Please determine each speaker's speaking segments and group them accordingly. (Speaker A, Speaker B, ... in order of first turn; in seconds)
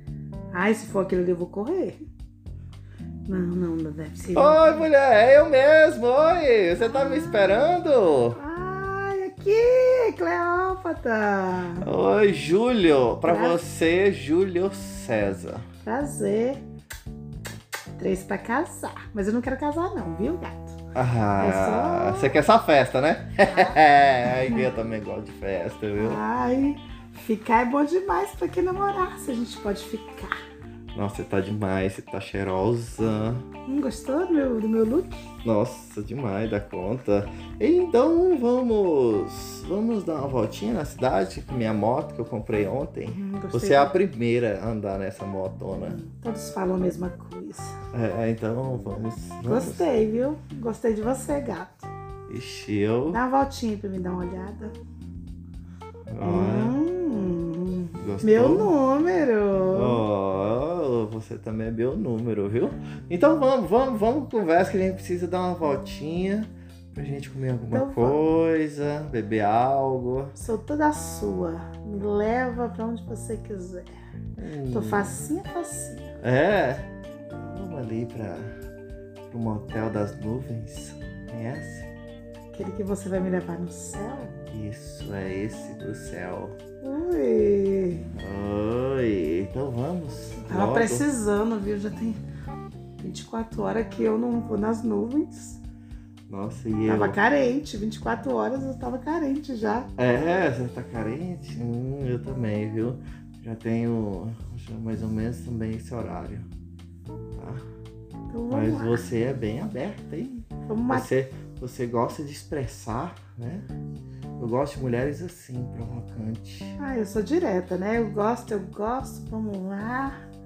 Speaker A: 0.5-2.0, 3.3-4.9, 6.8-7.7, 8.3-11.9, 13.2-13.6, 15.8-16.6, 18.0-20.8, 21.4-22.4, 23.5-23.8, 26.0-30.4, 33.7-35.3, 43.1-44.0, 45.8-47.8, 49.4-51.9, 53.1-54.8, 56.2-60.0, 67.7-68.2, 70.4-74.0, 74.7-76.2, 82.5-84.3, 86.8-88.1, 90.5-92.2, 93.0-95.6, 96.9-99.9, 108.3-109.1, 110.7-111.1, 116.8-120.2
Speaker B: 4.3-8.4, 11.8-15.7, 20.9-26.2, 30.9-33.5, 35.4-46.0, 47.9-49.9, 52.3-53.2, 56.1-56.8, 58.0-58.8, 59.7-70.4, 74.4-75.2, 76.2-78.5, 79.2-81.9, 84.5-86.6, 88.1-91.1, 96.3-97.2, 100.0-106.5, 107.4-107.7, 108.5-113.7, 114.4-116.8